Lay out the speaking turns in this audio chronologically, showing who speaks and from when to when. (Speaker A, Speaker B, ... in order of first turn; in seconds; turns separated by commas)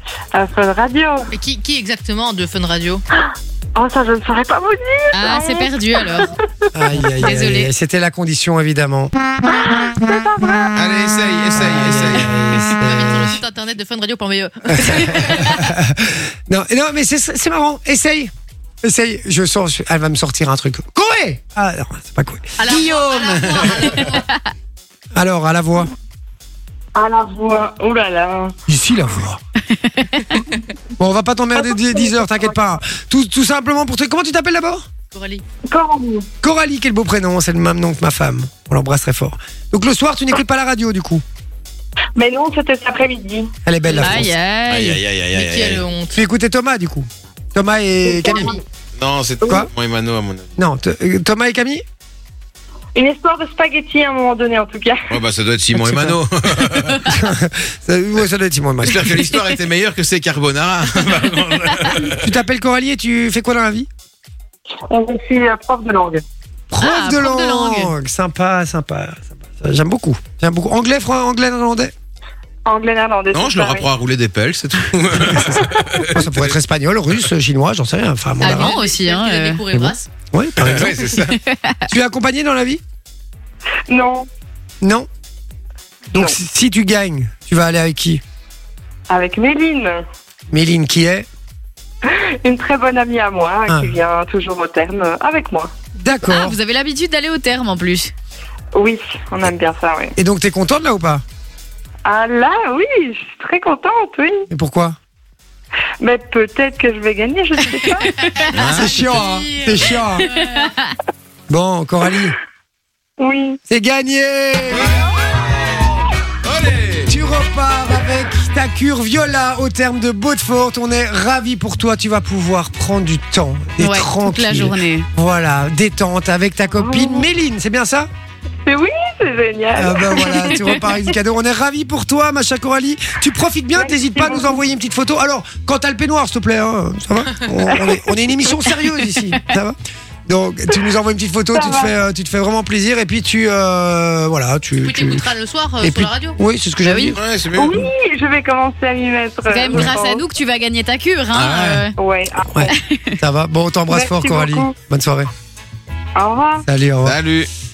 Speaker A: 0.3-1.3, Speaker B: 1.3-3.0, Speaker A: 3.7-6.3, Speaker C: 5.1-6.3, Speaker D: 6.7-9.1, Speaker C: 7.2-7.7, Speaker A: 9.4-10.7, Speaker E: 10.8-12.3, Speaker D: 11.5-13.4, Speaker B: 12.8-15.5, Speaker D: 14.7-18.3, Speaker D: 18.8-23.9, Speaker B: 22.6-24.3, Speaker D: 25.1-25.9, Speaker A: 26.9-28.6, Speaker D: 28.7-29.4, Speaker C: 29.7-30.4, Speaker D: 31.0-34.9, Speaker A: 31.6-32.5, Speaker B: 35.1-35.4, Speaker A: 35.6-36.3, Speaker D: 36.4-41.2, Speaker A: 42.2-43.5, Speaker D: 43.6-44.3, Speaker C: 43.9-45.0, Speaker E: 44.7-45.8, Speaker B: 45.3-46.2, Speaker D: 46.1-48.6, Speaker A: 48.1-48.6, Speaker E: 49.0-50.5, Speaker D: 50.6-51.8, Speaker A: 52.9-55.1, Speaker E: 55.1-57.2, Speaker D: 55.7-59.4, Speaker E: 58.8-62.3, Speaker D: 62.1-63.9, Speaker A: 64.9-66.2, Speaker D: 66.7-71.9, Speaker B: 66.8-67.9, Speaker A: 72.6-73.9, Speaker E: 73.3-76.5, Speaker D: 75.3-78.7, Speaker C: 78.4-79.6, Speaker B: 78.4-80.1, Speaker D: 79.7-81.2, Speaker E: 80.5-81.4, Speaker C: 81.3-81.8, Speaker D: 81.9-82.8, Speaker A: 83.9-84.3, Speaker D: 84.8-85.1, Speaker D: 86.1-88.2, Speaker A: 89.1-90.0, Speaker D: 90.5-91.3, Speaker A: 92.1-95.7, Speaker D: 93.7-93.9, Speaker D: 96.0-96.6, Speaker C: 96.2-98.1, Speaker A: 98.7-100.1, Speaker D: 100.2-101.2, Speaker A: 102.0-104.5, Speaker D: 104.5-105.0, Speaker A: 106.0-108.3, Speaker C: 107.8-108.4, Speaker B: 108.4-110.7, Speaker E: 108.5-109.1, Speaker D: 108.5-110.3, Speaker C: 110.2-110.9, Speaker D: 111.5-112.3, Speaker A: 113.2-113.6, Speaker D: 113.7-115.0, Speaker E: 114.7-115.9, Speaker E: 116.4-117.1, Speaker D: 117.1-128.1, Speaker C: 123.8-125.1, Speaker A: 126.8-127.2, Speaker A: 128.6-131.1, Speaker D: 129.7-145.3, Speaker A: 133.8-134.6, Speaker A: 137.7-138.0, Speaker A: 141.5-141.9, Speaker B: 144.8-146.4, Speaker D: 145.8-147.2, Speaker C: 146.8-147.2, Speaker E: 147.1-147.9, Speaker A: 147.5-150.2, Speaker C: 149.5-151.9, Speaker E: 151.3-151.9, Speaker A: 152.0-152.7, Speaker D: 152.4-155.3, Speaker C: 152.7-153.2, Speaker A: 153.9-154.8, Speaker A: 156.2-156.7, Speaker D: 156.6-157.2, Speaker E: 157.0-157.5